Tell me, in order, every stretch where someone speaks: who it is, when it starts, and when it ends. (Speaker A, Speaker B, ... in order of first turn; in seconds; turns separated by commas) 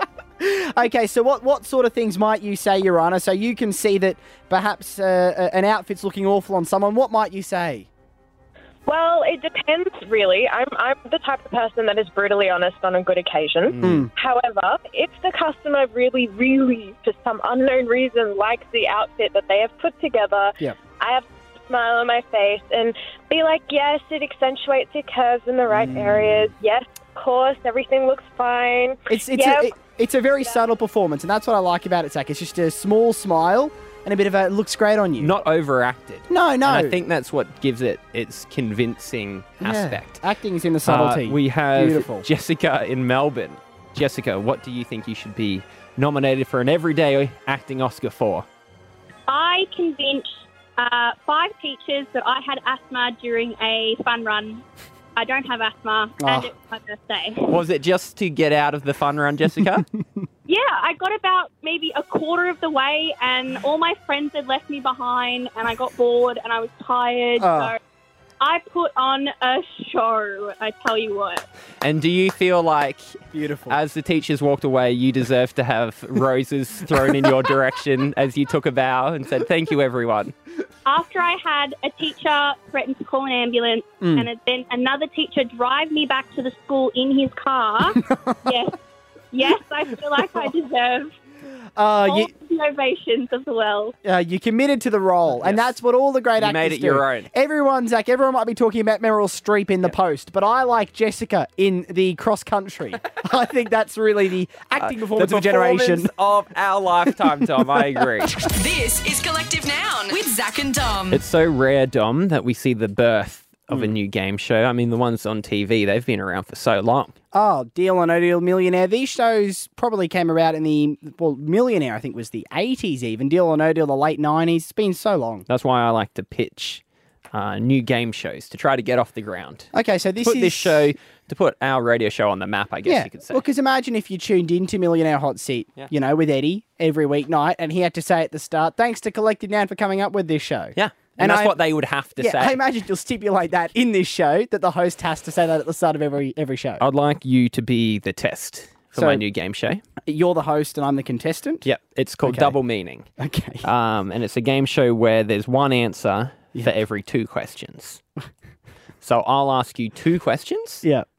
Speaker A: 0.4-7.9, Speaker B: 8.8-29.7, Speaker C: 13.7-14.1, Speaker A: 13.8-14.1, Speaker A: 25.7-26.4, Speaker A: 29.1-35.4, Speaker C: 35.2-40.2, Speaker A: 36.3-37.0, Speaker A: 39.6-42.3, Speaker C: 40.8-48.5, Speaker D: 49.3-54.6, Speaker D: 55.1-57.6, Speaker A: 56.2-56.5, Speaker C: 57.4-59.9, Speaker D: 60.5-67.8, Speaker A: 67.4-67.7, Speaker D: 68.4-71.4, Speaker C: 71.8-80.3, Speaker A: 73.3-73.8, Speaker D: 80.8-88.8, Speaker A: 84.0-84.3, Speaker A: 88.0-88.6, Speaker D: 89.3-91.1, Speaker A: 91.8-92.3, Speaker D: 92.0-94.0, Speaker A: 94.0-106.1, Speaker C: 95.4-95.7, Speaker C: 96.4-97.3, Speaker C: 104.8-108.3, Speaker E: 108.5-111.2, Speaker C: 111.1-117.1, Speaker A: 117.3-125.5, Speaker C: 125.5-126.8, Speaker C: 127.3-133.4, Speaker A: 129.7-130.9, Speaker A: 132.8-141.6, Speaker C: 140.8-142.6, Speaker A: 142.2-146.8, Speaker C: 146.8-149.8, Speaker A: 148.9-149.2, Speaker A: 150.0-151.7, Speaker C: 151.6-153.1, Speaker A: 152.2-152.6, Speaker A: 153.2-153.6, Speaker C: 153.6-158.0, Speaker C: 159.0-160.8